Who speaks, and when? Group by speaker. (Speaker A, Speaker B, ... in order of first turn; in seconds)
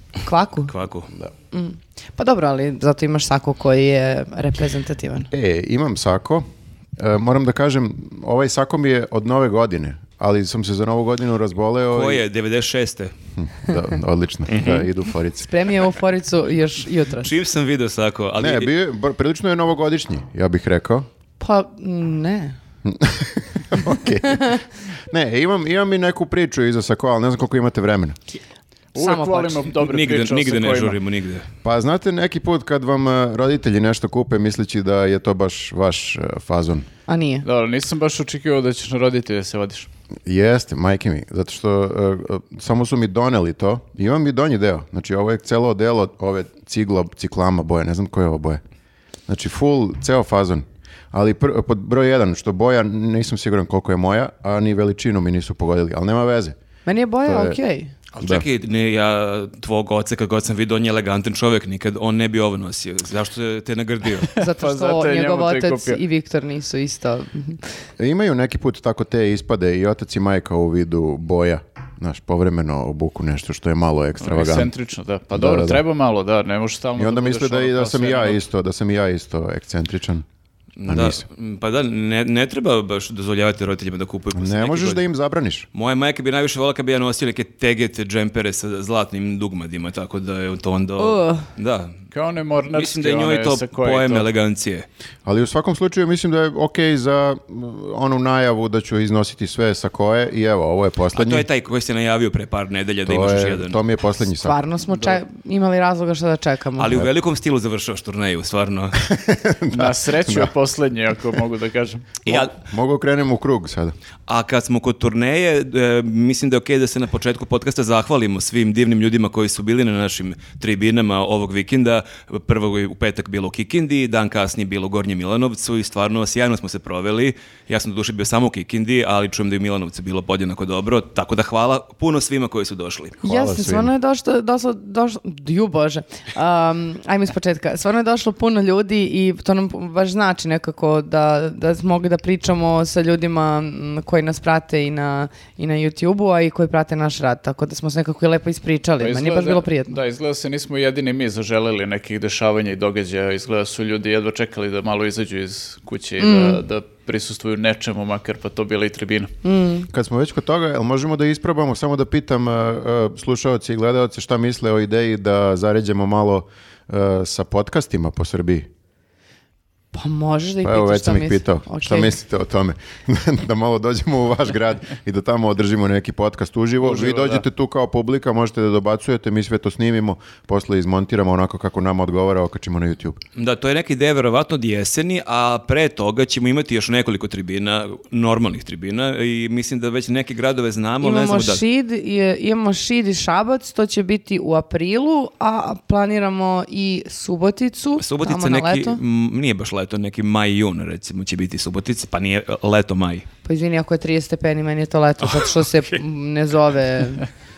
Speaker A: 0.2-0.7, 1.5-5.3, 15.4-17.4, 21.4-22.6, 29.0-29.7, 37.1-37.5, 56.9-57.9, 64.3-67.6, 91.0-91.5, 104.4-107.0, 133.2-150.0, 156.2-156.6, 159.4-159.9, 169.9-172.1, 191.0-199.0, 203.4-207.2
Speaker B: 0.7-1.1, 11.9-13.1, 14.5-14.9, 17.2-18.7, 29.7-31.4, 58.1-64.3, 80.8-85.0, 85.7-92.0, 92.7-94.8, 101.1-103.8, 106.8-109.0, 112.2-112.5, 114.3-133.2, 183.4-191.6, 198.0-203.2, 205.2-205.6
Speaker C: 5.3-6.5, 7.0-12.2, 13.4-15.5, 18.4-21.1, 22.8-28.2, 31.6-36.9, 40.3-48.6, 49.3-56.5, 57.2-57.6, 68.0-74.7, 75.3-75.8, 77.0-80.2, 80.9-81.2, 84.3-85.7, 95.2-101.5, 103.1-104.6, 109.0-110.5, 112.2-113.9, 133.2-133.9, 159.9-168.7, 170.6-183.2
Speaker D: 28.9-31.0, 37.4-39.9, 64.2-66.0, 74.2-78.4, 92.1-94.3, 109.7-112.2, 149.0-159.3, 176.8-177.4